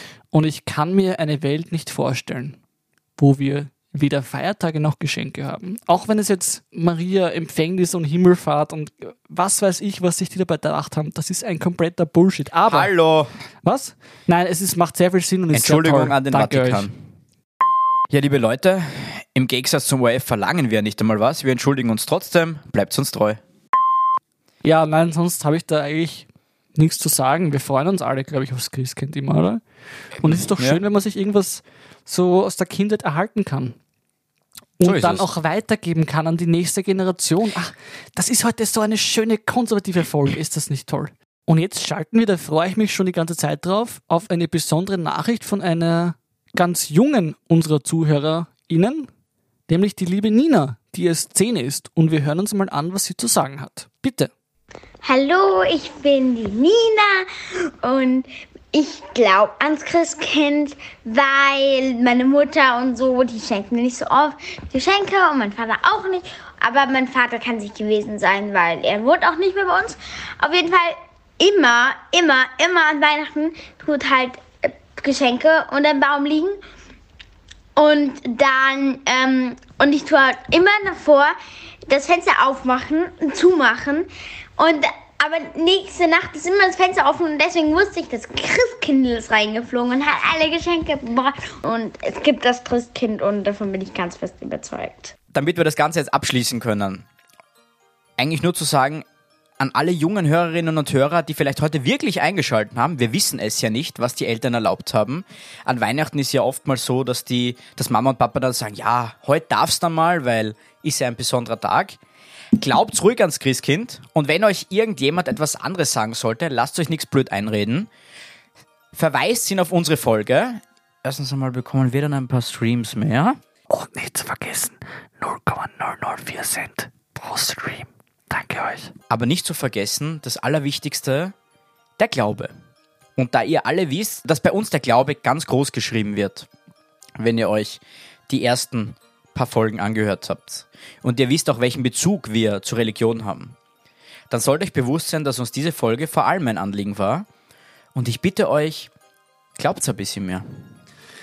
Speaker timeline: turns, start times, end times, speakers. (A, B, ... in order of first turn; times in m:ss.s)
0:00.3-0:02.6 A
0:03.2-0:12.9 A
0:12.7-0:13.3 B
0:13.6-0:16.9 A
0:15.5-0:17.0 B
0:18.1-0:23.4 B
0:24.6-0:29.6 A
0:30.2-0:33.8 A
0:30.3-0:30.8 B
0:34.8-0:49.1 A
0:34.8-0:35.3 B
0:49.7-0:54.3 A
0:55.0-1:16.6 C
1:17.8-1:21.3 C
1:21.9-1:35.1 C
1:35.3-1:37.1 B
1:38.2-1:39.0 B
1:39.6-1:52.0 B
1:52.6-1:57.9 B
1:58.9-2:03.4 B
2:03.7-2:08.9 A
2:09.1-2:11.3 B
2:12.0-2:12.5 B
2:13.2-2:16.5 B
2:17.2-2:23.6 B
2:24.3-2:27.3 B
2:28.0-2:28.9 B
2:29.6-2:30.4 B